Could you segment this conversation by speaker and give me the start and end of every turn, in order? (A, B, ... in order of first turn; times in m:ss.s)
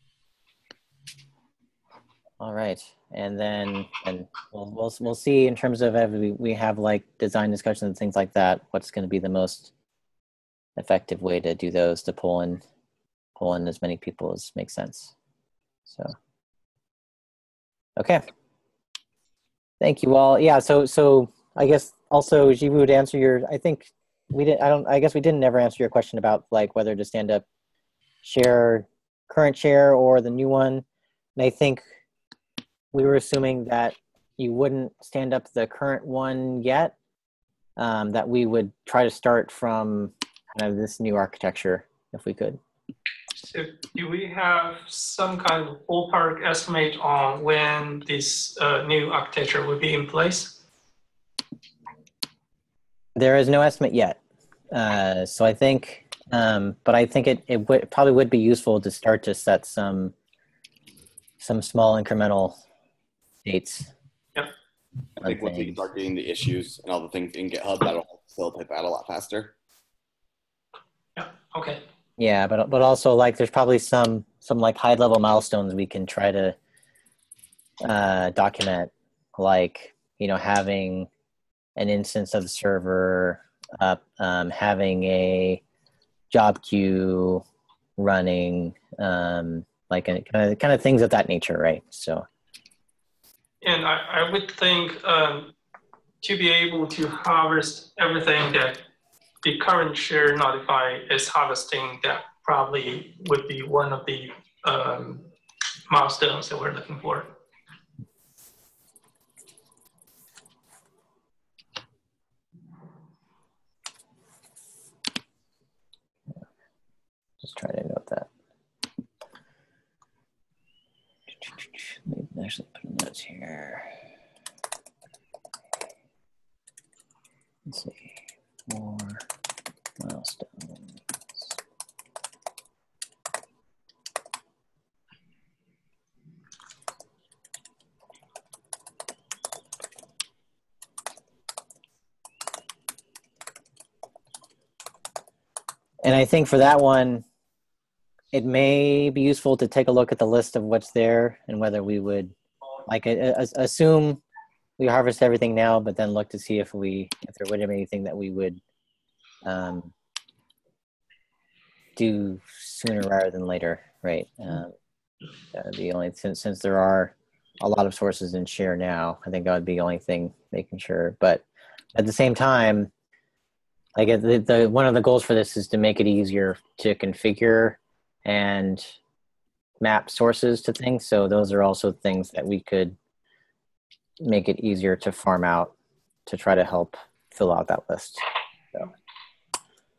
0:02.4-0:09.7 A
0:10.8-0:12.6 A
0:13.4-0:15.1 A
0:15.9-0:16.2 A
0:18.0-0:18.2 A
0:19.8-0:27.4 A
0:28.2-0:30.8 A
0:31.4-0:31.8 A
0:32.9-0:36.9 A
0:37.8-0:42.6 A
0:43.4-0:50.6 B
0:53.2-0:54.2 A
0:54.7-1:00.1 A
1:01.4-1:02.6 A
1:03.4-1:03.9 A
1:05.2-1:05.8 A
1:05.2-1:09.5 C
1:11.2-1:11.8 B
1:12.2-1:16.6 A
1:17.8-1:21.1 A
1:21.8-1:25.6 A
1:26.3-1:27.4 A
1:28.0-1:32.3 A
1:33.6-1:35.5 B
1:36.2-1:38.8 B
1:39.4-1:45.3 B
1:45.9-1:47.3 B
1:57.4-1:58.3 A
2:01.4-2:03.9 A
2:07.7-2:08.1 A
2:08.7-2:09.2 A
2:10.0-2:11.5 A
2:26.0-2:27.2 A
2:28.3-2:32.3 A
2:32.9-2:34.2 A
2:34.8-2:38.6 A
2:39.4-2:39.9 A
2:42.0-2:44.7 A
2:45.5-2:51.4 A
2:52.0-2:52.9 A
2:54.0-2:58.9 A
2:59.8-3:03.0 A
3:04.2-3:05.7 A
3:06.3-3:08.9 A